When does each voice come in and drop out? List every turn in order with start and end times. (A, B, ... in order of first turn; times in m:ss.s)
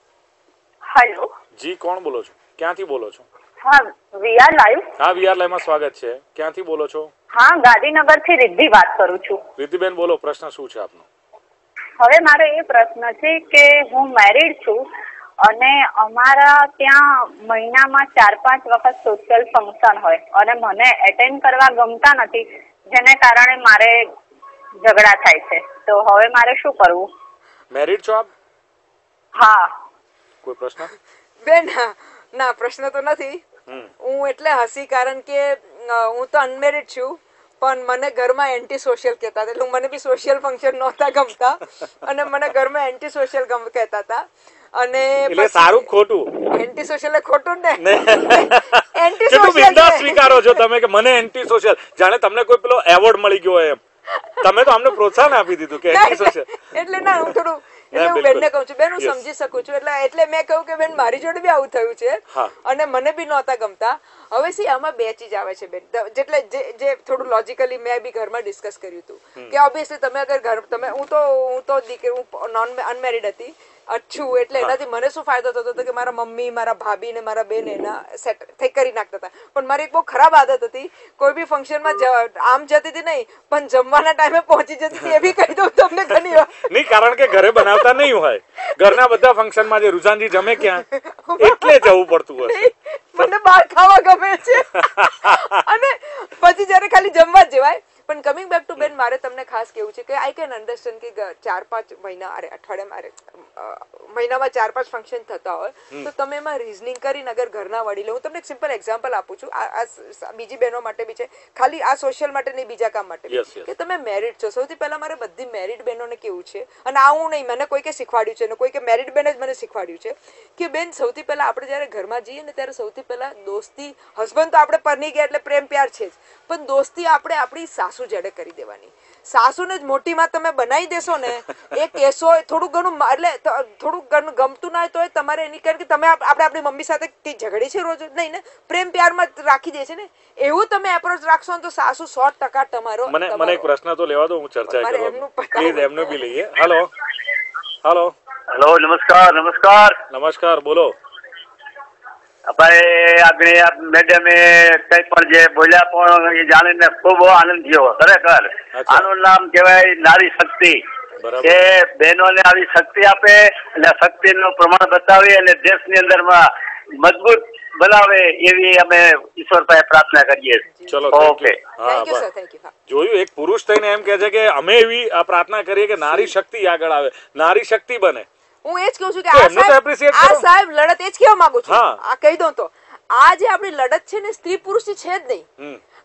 0:00.9-0:01.3 A
0:01.6-0:03.3 B
0:03.6-0:04.9 A
0:05.0-0:07.1 B
0:07.4-0:09.4 A
0:09.6-0:11.1 B
0:12.0-0:14.8 A
0:15.4-0:24.0 A
0:24.8-0:27.1 A
0:27.7-0:28.3 B
0:29.4-0:29.7 A
0:30.4-0:30.9 B
0:31.4-0:33.4 C
0:34.0-0:45.9 C
0:45.3-0:46.4 B
0:46.5-0:50.5 C
0:47.8-0:53.8 B
0:54.4-0:56.5 B
0:55.9-1:26.7 C
0:57.9-0:59.2 B
1:26.7-1:30.9 B
1:27.3-1:28.0 C
1:30.6-1:31.8 C
1:31.4-1:32.7 B
1:32.4-2:23.7 C
1:34.9-1:35.3 B
1:53.3-1:53.7 B
2:23.1-2:26.9 B
2:24.7-2:26.2 C
2:27.8-2:28.2 B
2:28.5-2:30.0 D
2:30.1-2:31.0 B
2:32.5-2:40.8 D
2:38.7-2:39.1 B
2:41.2-2:41.6 B
2:41.4-2:46.4 D
2:47.0-2:51.6 D
2:50.6-2:51.1 C
2:50.9-2:52.2 B
2:51.8-2:52.7 C
2:52.9-2:58.3 B
2:58.6-3:05.5 C
2:59.3-3:00.5 B
3:01.7-3:02.0 B